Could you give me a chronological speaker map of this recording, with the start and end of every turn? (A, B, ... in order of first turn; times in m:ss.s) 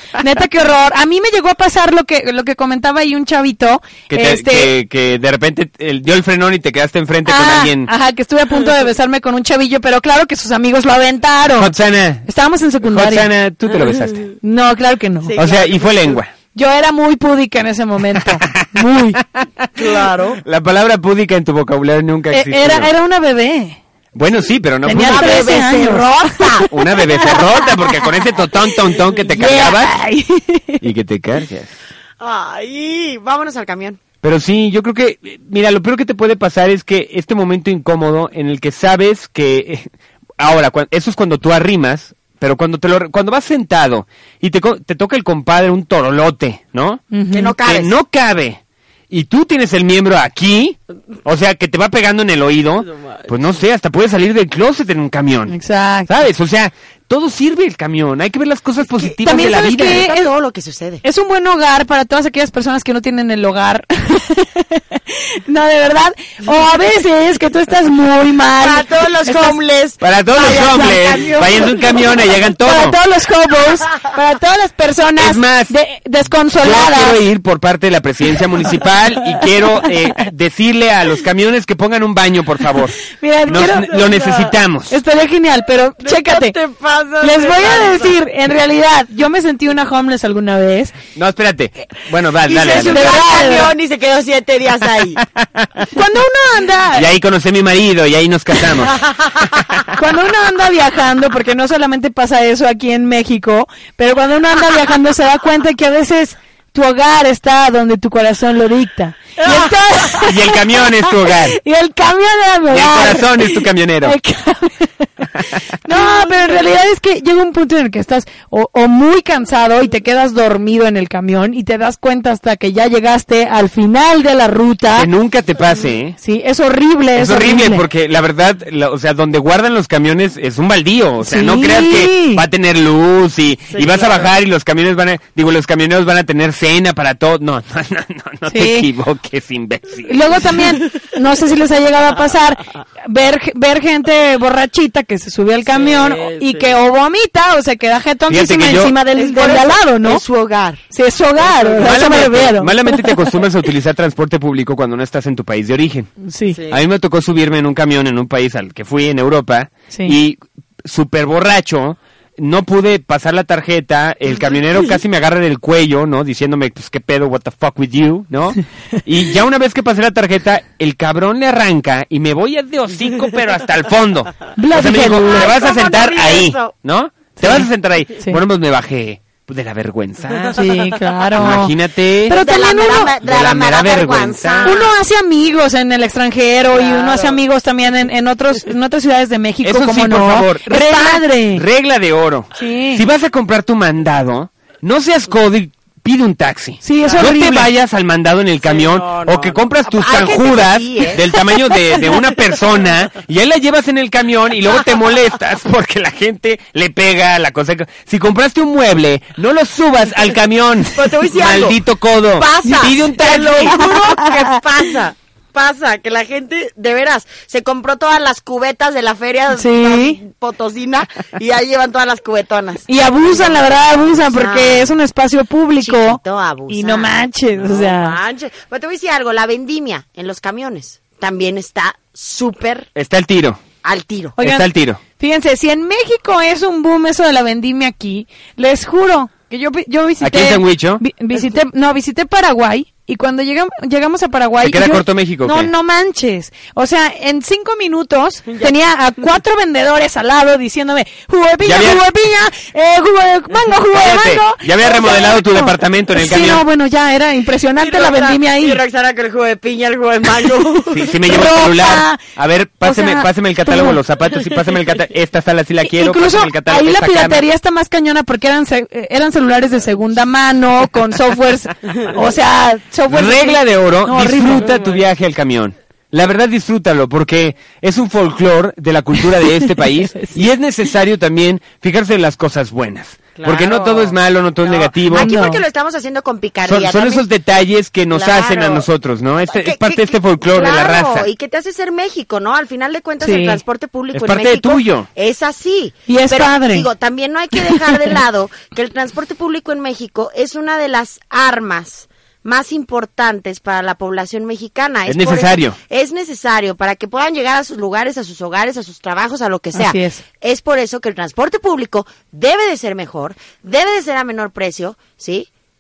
0:00.2-0:04.7 A
0:04.1-0:07.9 B
0:07.3-0:11.7 A
0:11.6-0:12.3 B
0:12.3-0:13.3 A
0:12.8-0:14.2 B
0:14.4-0:15.4 A
0:15.2-0:16.2 C
0:15.4-0:16.3 B
0:16.5-0:19.2 A
0:19.8-0:20.4 C
0:20.4-0:22.9 B
0:22.3-0:23.8 A
0:24.2-0:25.4 B
0:24.8-0:28.0 A
0:24.9-0:26.7 C
0:26.7-0:29.9 B
0:29.2-0:30.8 A
0:30.8-0:31.7 B
0:32.2-0:34.0 C
0:34.2-0:47.0 B
0:47.1-0:47.6 A
0:47.3-0:47.9 C
0:47.6-0:55.6 B
0:53.0-0:53.6 C
0:55.5-0:56.1 A
0:56.1-1:00.1 B
0:59.0-1:01.0 C
0:59.2-1:00.2 A
1:01.0-1:09.6 A
1:08.6-1:11.8 C
1:10.0-1:13.0 B
1:10.4-1:17.2 A
1:15.2-1:15.7 B
1:16.6-1:25.0 B
1:23.1-1:24.0 A
1:23.9-1:24.5 C
1:24.9-1:26.6 A
1:26.0-1:28.2 C
1:27.2-1:30.9 A
1:31.2-1:33.2 B
1:32.5-1:35.2 C
1:32.7-1:33.7 A
1:35.4-1:35.7 B
1:35.9-1:37.1 A
1:36.9-1:39.0 B
1:38.9-1:39.5 C
1:40.0-1:54.9 A
1:49.4-1:49.7 C
1:50.2-1:51.6 B
1:52.7-1:54.2 B
1:55.8-2:05.1 A
1:55.9-1:56.6 C
2:05.0-2:06.2 B
2:06.2-2:07.8 A
2:07.1-2:20.4 B
2:11.2-2:12.4 A
2:13.7-2:14.3 C
2:18.5-2:18.9 A
2:20.1-2:30.2 A
2:25.7-2:26.8 C
2:28.3-2:28.9 B
2:29.1-2:30.8 C
2:30.9-2:33.2 A
2:31.4-2:32.2 C
2:31.8-2:36.1 B
2:36.2-2:36.6 A
2:36.7-3:00.5 B
2:39.9-2:40.2 A
2:44.4-2:44.9 C
2:54.6-2:55.5 A
2:55.1-2:56.7 C
2:57.4-2:57.7 A
3:00.5-3:01.8 A
3:01.4-3:02.4 B
3:02.3-3:03.1 A
3:02.3-3:04.9 C
3:03.2-3:04.8 B
3:04.6-3:11.6 A
3:06.7-3:07.4 C
3:09.6-3:33.8 B
3:10.8-3:11.1 C
3:12.6-3:13.0 A
3:16.8-3:17.7 A
3:17.0-3:17.4 C
3:18.6-3:21.3 C
3:31.0-3:31.8 C
3:32.4-3:45.0 C
3:33.6-3:34.8 A
3:39.5-3:40.2 A
3:42.9-3:48.2 A
3:45.8-3:52.9 C
3:53.0-3:53.6 B
3:53.8-3:54.4 C
3:54.4-4:18.8 A
3:54.4-3:55.0 B
4:00.2-4:01.0 B
4:04.6-4:05.7 B
4:11.6-4:12.0 B
4:13.9-4:16.6 B
4:17.8-4:21.2 C
4:20.9-4:27.4 B
4:21.3-4:22.2 A
4:22.8-4:24.0 A
4:25.8-4:34.8 A
4:33.1-4:45.3 B
4:34.6-4:35.0 C
4:43.4-4:47.3 C
4:45.1-4:45.6 A
4:46.7-4:51.3 B
4:48.1-4:48.9 C
4:49.4-5:15.5 C
4:53.2-4:53.6 A
4:54.1-4:55.1 B
4:56.1-4:56.9 A
4:57.6-4:58.1 A
5:05.1-5:05.8 B
5:09.7-5:10.2 A